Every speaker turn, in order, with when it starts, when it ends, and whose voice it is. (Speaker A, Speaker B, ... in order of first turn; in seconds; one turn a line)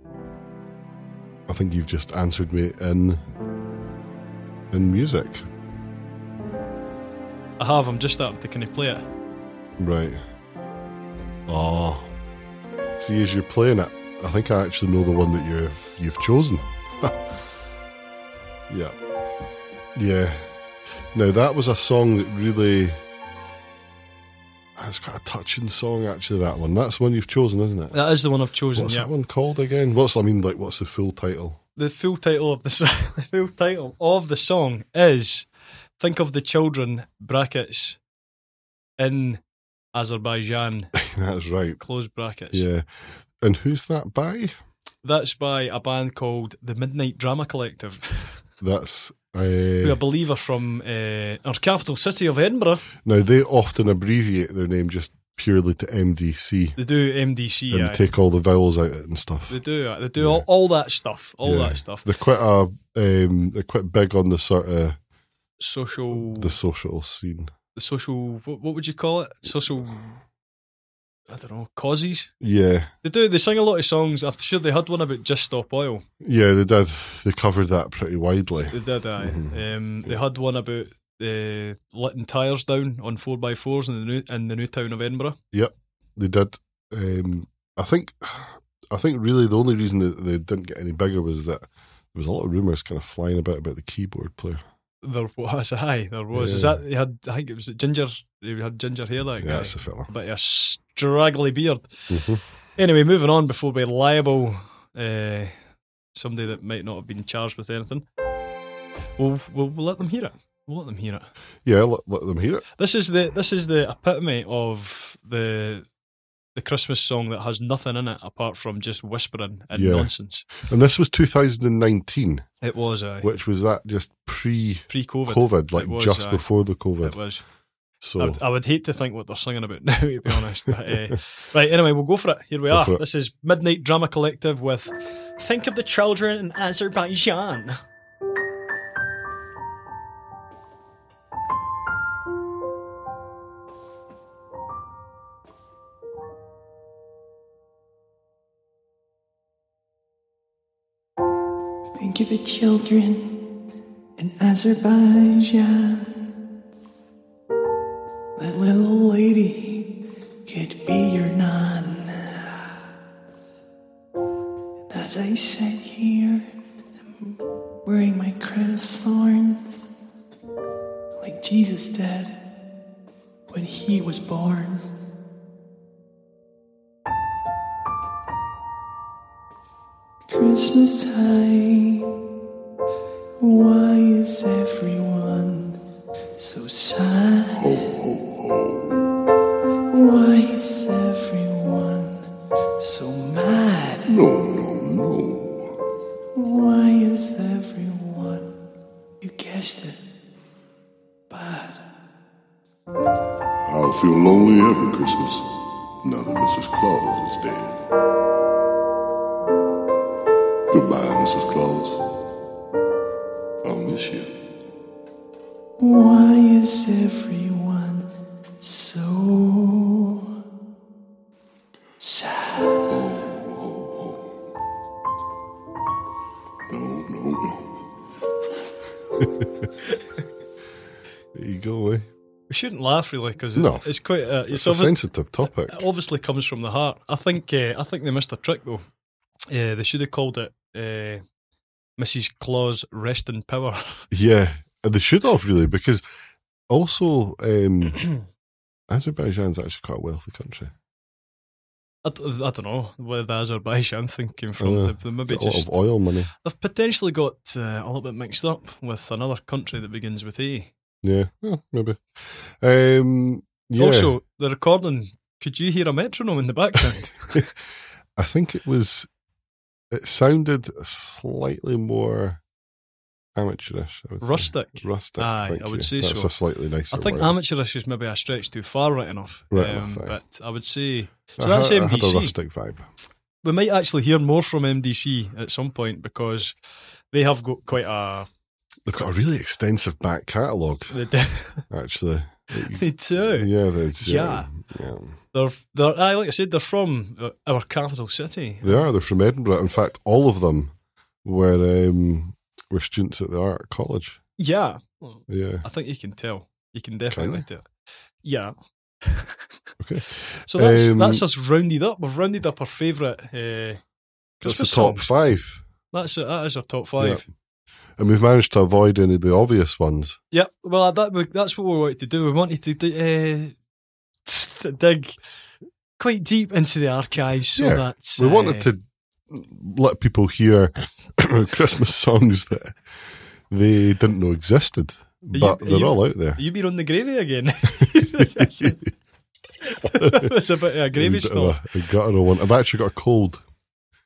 Speaker A: 1.5-3.2
Speaker A: 4.7-5.5
Speaker B: 7.6-9.1
Speaker A: 9.8-10.2
Speaker A: 11.5-12.1
Speaker A: 13.0-17.2
Speaker A: 18.7-18.9
Speaker A: 19.9-20.5
Speaker A: 21.1-23.0
Speaker A: 24.8-28.0
Speaker B: 27.9-29.1
Speaker A: 28.7-31.6
Speaker B: 31.8-35.5
Speaker B: 36.0-38.0
Speaker B: 39.0-39.4
Speaker B: 39.9-40.9
Speaker A: 40.9-41.8
Speaker B: 41.8-42.7
Speaker A: 42.5-44.5
Speaker B: 45.0-48.4
Speaker A: 48.6-50.0
Speaker B: 49.8-52.9
Speaker A: 53.0-56.8
Speaker B: 56.8-58.0
Speaker A: 57.7-59.6
Speaker B: 59.5-62.0
Speaker A: 60.2-60.4
Speaker A: 61.4-65.0
Speaker B: 65.6-66.6
Speaker A: 66.1-67.5
Speaker B: 67.7-70.2
Speaker B: 71.3-72.3
Speaker A: 72.4-72.9
Speaker B: 73.0-76.0
Speaker A: 76.2-80.1
Speaker B: 78.7-85.4
Speaker A: 85.5-94.6
Speaker B: 95.0-102.1
Speaker A: 96.3-96.8
Speaker A: 99.4-100.1
Speaker A: 102.1-102.4
Speaker B: 102.8-105.5
Speaker B: 106.1-108.0
Speaker B: 109.2-111.3
Speaker A: 111.6-112.6
Speaker B: 112.8-115.8
Speaker B: 116.5-120.5
Speaker A: 119.7-122.5
Speaker B: 122.6-123.3
Speaker A: 123.2-127.2
Speaker B: 124.9-126.4
Speaker B: 127.0-127.4
Speaker A: 128.0-128.4
Speaker B: 128.2-137.8
Speaker A: 130.8-131.1
Speaker A: 132.7-133.0
Speaker C: 151.9-153.4
Speaker C: 154.2-156.1
Speaker C: 158.4-159.8
Speaker C: 160.4-162.6
Speaker C: 164.9-166.5
Speaker C: 167.2-169.8
Speaker C: 171.2-172.4
Speaker C: 173.5-174.8
Speaker C: 180.3-182.1
Speaker C: 183.4-185.8
Speaker C: 186.4-187.7
Speaker D: 187.6-189.0
Speaker C: 189.9-194.1
Speaker D: 194.1-195.7
Speaker C: 196.3-198.5
Speaker C: 199.2-200.0
Speaker C: 201.3-201.8
Speaker D: 203.6-205.4
Speaker D: 206.0-207.8
Speaker D: 210.7-212.0
Speaker D: 213.6-214.3
Speaker C: 215.8-218.1
Speaker C: 218.6-220.2
Speaker C: 222.0-222.8
Speaker D: 222.8-224.2
Speaker D: 226.7-227.7
Speaker A: 229.2-229.7
Speaker A: 231.3-232.1
Speaker B: 232.5-238.9
Speaker A: 233.5-233.9
Speaker A: 234.5-235.8
Speaker B: 239.5-241.2
Speaker B: 242.0-244.1
Speaker A: 244.1-246.0
Speaker A: 246.7-248.0
Speaker A: 248.9-250.7
Speaker B: 252.0-255.8
Speaker A: 254.6-256.3
Speaker B: 256.4-260.7
Speaker A: 261.0-264.1
Speaker B: 263.8-267.5
Speaker A: 268.2-269.1
Speaker A: 269.9-272.4
Speaker A: 273.3-277.3
Speaker B: 274.2-276.3
Speaker B: 276.9-282.3
Speaker A: 279.5-280.2
Speaker A: 281.4-282.8
Speaker B: 283.4-286.5
Speaker B: 287.1-288.3
Speaker A: 288.9-290.9
Speaker B: 290.9-291.6
Speaker A: 291.7-295.1
Speaker B: 292.5-294.5
Speaker B: 295.3-298.9
Speaker A: 298.6-300.7
Speaker A: 301.2-304.2
Speaker B: 304.4-307.7
Speaker A: 305.3-305.6
Speaker A: 307.1-307.4
Speaker B: 308.2-309.4
Speaker A: 309.8-311.2
Speaker B: 310.5-313.8
Speaker B: 314.4-315.1
Speaker A: 314.4-315.6
Speaker B: 315.9-317.2
Speaker A: 317.0-317.3
Speaker A: 318.0-320.2
Speaker B: 320.3-323.5
Speaker B: 324.2-325.2
Speaker B: 326.0-328.7
Speaker A: 327.6-332.8
Speaker A: 333.5-336.4
Speaker B: 335.3-338.8
Speaker A: 337.7-338.9
Speaker B: 339.6-341.6
Speaker A: 339.8-340.3
Speaker A: 340.9-343.4